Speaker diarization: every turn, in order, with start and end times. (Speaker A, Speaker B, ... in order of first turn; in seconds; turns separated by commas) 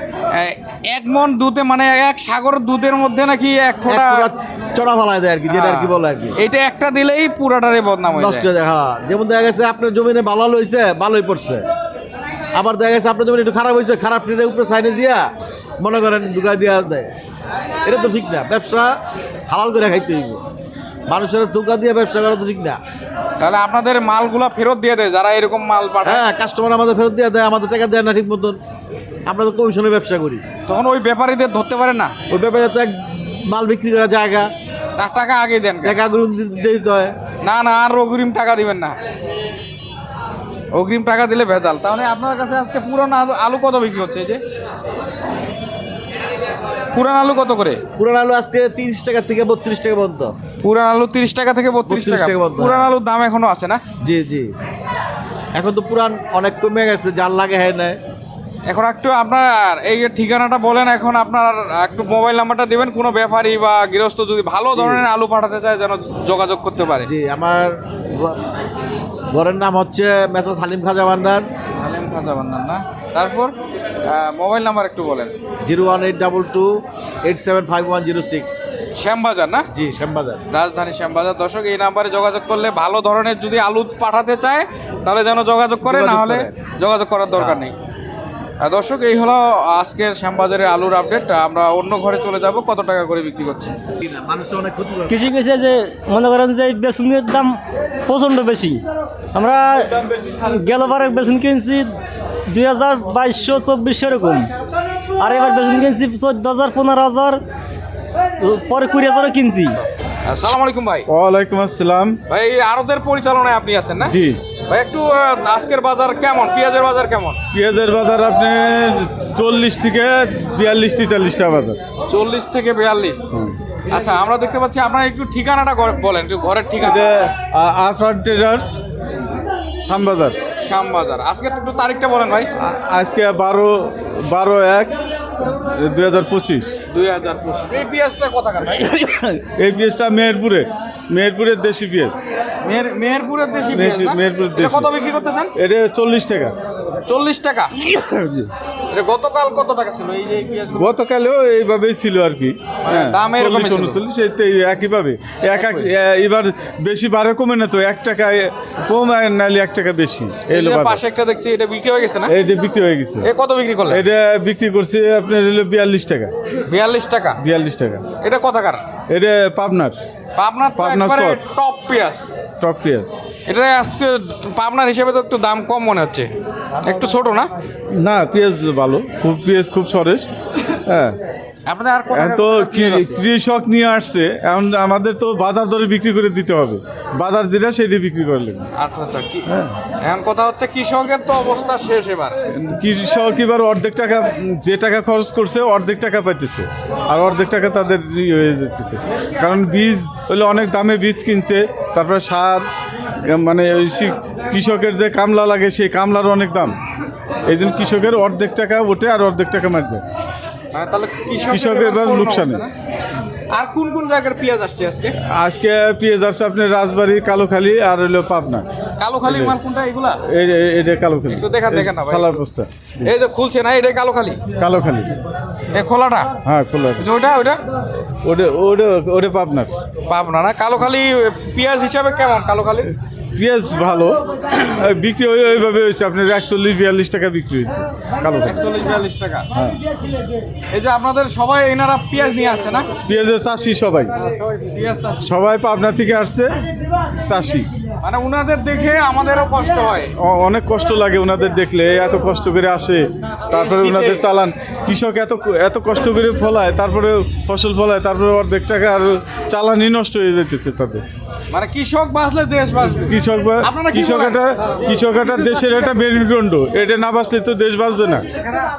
Speaker A: 0.3-4.3, Speaker B: 3.9-6.4, Speaker A: 5.5-8.5, Speaker B: 8.2-11.6, Speaker B: 12.5-15.3, Speaker B: 15.8-17.1, Speaker B: 17.8-18.9, Speaker B: 19.5-20.4, Speaker B: 21.1-22.8, Speaker A: 23.4-26.2, Speaker B: 26.0-28.6, Speaker B: 29.2-30.4, Speaker A: 30.7-32.1, Speaker B: 32.3-34.5, Speaker A: 35.0-36.0, Speaker B: 35.8-37.1, Speaker A: 37.4-39.0, Speaker A: 40.7-44.4, Speaker A: 46.9-47.8, Speaker B: 48.0-50.3, Speaker A: 50.6-53.8, Speaker B: 51.9-52.9, Speaker B: 54.0-54.5, Speaker B: 55.5-58.0, Speaker A: 58.7-67.1, Speaker B: 64.7-65.0, Speaker B: 67.0-68.4, Speaker B: 69.3-71.5, Speaker A: 71.8-73.5, Speaker A: 74.0-75.3, Speaker B: 75.6-78.6, Speaker A: 79.0-79.7, Speaker B: 79.7-80.4, Speaker A: 80.5-87.7, Speaker B: 85.8-86.5, Speaker A: 88.6-93.8, Speaker B: 94.0-95.2, Speaker C: 95.1-98.8, Speaker C: 99.3-101.9, Speaker C: 102.5-104.5, Speaker C: 105.2-107.4, Speaker C: 108.4-109.8, Speaker A: 110.2-111.1, Speaker D: 111.1-112.2, Speaker A: 112.3-114.2, Speaker D: 114.0-114.4, Speaker A: 114.7-117.4, Speaker D: 117.5-121.8, Speaker A: 122.1-123.3, Speaker A: 123.9-127.1, Speaker D: 126.8-128.8, Speaker D: 129.8-130.4, Speaker A: 130.6-132.5, Speaker D: 132.6-134.9, Speaker D: 135.6-136.7, Speaker A: 136.9-139.2, Speaker D: 139.2-142.1, Speaker A: 142.6-145.5, Speaker D: 143.7-144.9, Speaker D: 145.6-146.5, Speaker A: 147.0-147.8, Speaker D: 147.8-148.5, Speaker A: 148.9-150.9, Speaker D: 150.7-161.0, Speaker A: 152.8-154.0, Speaker A: 155.5-155.9, Speaker A: 160.5-162.3, Speaker D: 162.3-163.3, Speaker A: 163.2-164.0, Speaker D: 163.9-166.3, Speaker A: 166.7-167.4, Speaker D: 167.4-168.1, Speaker A: 168.2-168.8, Speaker D: 169.1-170.0, Speaker A: 170.4-172.3, Speaker D: 170.8-171.4, Speaker D: 172.6-173.1, Speaker A: 173.5-176.3, Speaker A: 176.8-177.5, Speaker D: 178.0-180.2, Speaker D: 180.8-181.2, Speaker A: 181.7-183.2, Speaker D: 182.1-188.7, Speaker A: 188.8-189.5, Speaker D: 189.5-189.8, Speaker A: 190.0-192.4, Speaker D: 192.5-202.7, Speaker D: 203.2-206.7, Speaker D: 207.4-210.0, Speaker A: 210.7-212.7, Speaker D: 211.5-212.6, Speaker A: 213.5-215.1, Speaker D: 215.3-218.7, Speaker A: 219.0-220.2, Speaker D: 219.2-219.6, Speaker D: 220.2-223.1, Speaker A: 221.3-222.4, Speaker A: 223.0-224.4, Speaker D: 224.6-225.1, Speaker A: 225.7-226.3, Speaker D: 226.4-227.0, Speaker A: 227.0-227.6, Speaker D: 228.2-229.7, Speaker A: 230.1-232.9, Speaker D: 233.3-238.7, Speaker A: 238.4-239.5, Speaker A: 240.7-242.9, Speaker D: 243.1-244.1, Speaker A: 244.2-245.3, Speaker D: 245.2-246.6, Speaker D: 247.2-247.7, Speaker A: 248.0-250.1, Speaker D: 250.2-261.1, Speaker A: 253.5-254.2, Speaker A: 261.5-264.4, Speaker D: 263.1-268.2